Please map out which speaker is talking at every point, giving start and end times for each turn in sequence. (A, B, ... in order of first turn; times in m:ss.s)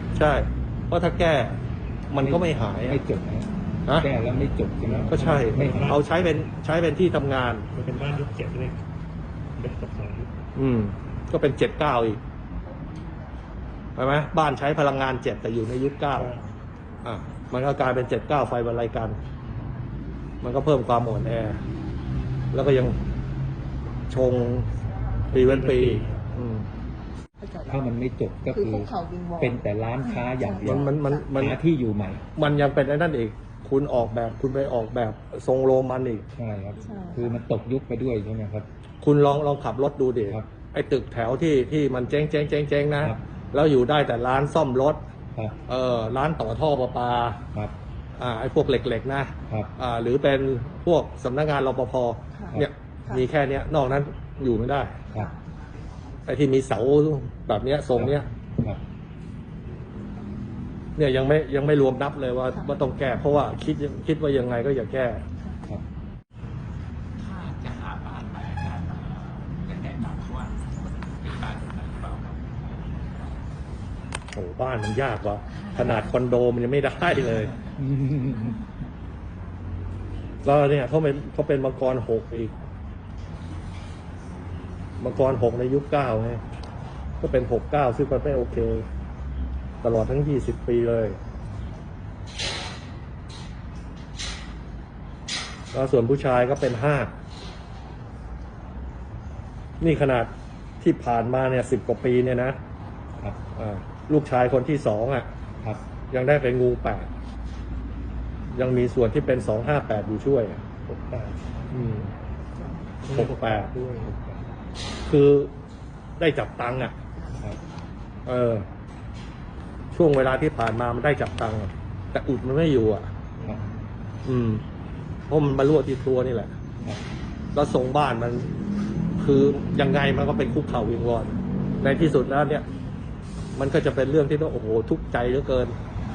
0:00.1-0:03.0 A
0:02.2-0:06.0 B
0:04.9-0:06.0 C
0:05.1-0:07.7 A
0:07.7-0:08.8 C
0:09.6-0:10.3 C
0:10.6-0:12.2 A
0:14.0-0:16.3 A
0:16.1-0:16.5 C
0:17.0-0:19.2 A
0:20.4-0:21.6 A
0:22.5-0:23.0 A
0:24.1-0:24.7 A
0:25.3-0:26.2 C
0:25.3-0:26.7 A
0:27.4-0:27.8 D
0:27.7-0:32.2 B
0:28.4-0:31.3 D
0:30.6-0:31.6 A
0:32.4-0:36.2 A
0:36.4-0:38.6 B
0:36.8-0:37.2 D
0:39.0-0:45.0 A
0:45.7-0:47.4 A
0:48.2-0:55.0 A
0:52.4-0:53.2 D
0:56.3-0:58.3 A
0:58.0-0:58.8 B
1:01.0-1:05.2 A
1:07.2-1:13.3 E
1:14.3-1:17.5 A
1:17.8-1:18.6 B
1:20.4-1:22.5 A
1:25.0-1:26.4 A
1:27.2-1:28.8 A
1:29.8-1:31.2 A
1:35.7-1:37.1 A
1:39.8-1:42.6 A
1:43.6-1:45.3 A
1:46.1-1:47.1 A
1:48.5-1:50.6 A
1:50.8-1:51.6 C
1:51.7-1:52.1 A
1:53.0-1:54.4 C
1:53.1-1:53.7 A
1:55.0-1:55.5 A
1:56.2-1:56.9 A
1:58.2-1:58.6 A
1:59.9-2:03.1 A
2:04.2-2:04.6 A
2:05.3-2:06.5 A
2:07.5-2:08.5 A
2:09.2-2:12.6 A
2:13.6-2:15.7 A